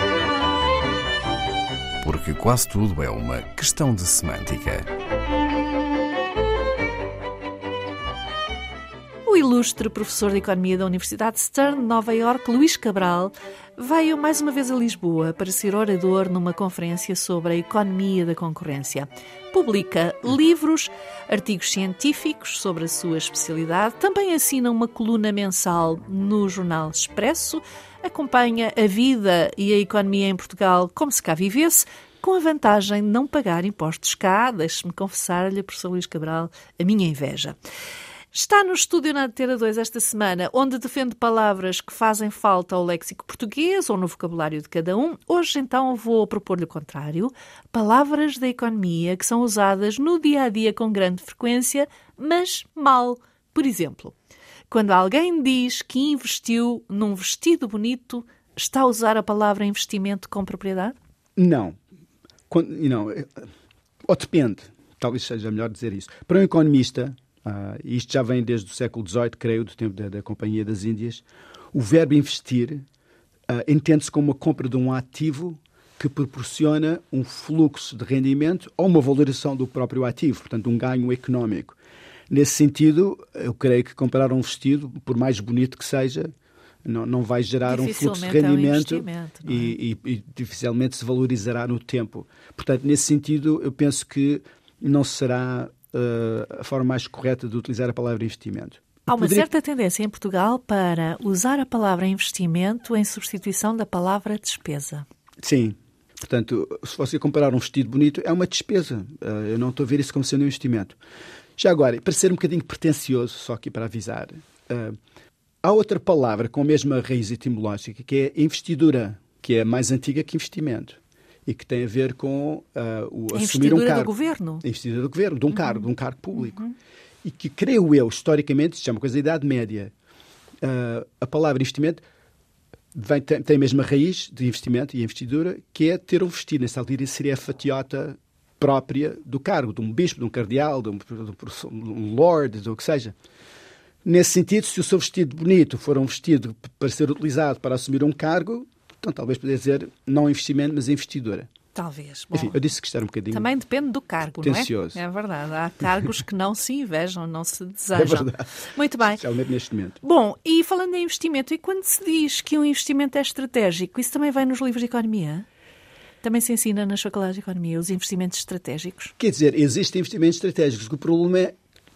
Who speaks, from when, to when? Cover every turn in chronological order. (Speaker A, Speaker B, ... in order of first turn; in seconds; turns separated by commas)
Speaker A: 2.0-4.9, Speaker B: 9.2-37.5, Speaker B: 38.3-54.1, Speaker B: 54.7-61.0, Speaker C: 61.4-61.8, Speaker C: 62.5-63.5, Speaker C: 64.0-72.8, Speaker C: 73.5-81.8, Speaker C: 82.3-86.3, Speaker C: 86.8-99.5, Speaker B: 87.7-89.8, Speaker B: 99.1-105.0, Speaker C: 105.4-111.0, Speaker C: 111.6-115.0, Speaker C: 115.6-126.6, Speaker B: 123.3-124.6, Speaker B: 125.5-125.8, Speaker B: 126.4-126.7, Speaker C: 127.2-129.9, Speaker C: 130.6-132.0, Speaker C: 132.9-143.1, Speaker C: 144.0-151.5, Speaker B: 151.7-152.6, Speaker C: 152.3-153.5, Speaker B: 153.3-159.2, Speaker C: 154.4-155.0, Speaker C: 157.9-158.5, Speaker C: 159.0-160.0, Speaker B: 160.0-165.4, Speaker B: 166.2-169.1, Speaker C: 169.2-171.5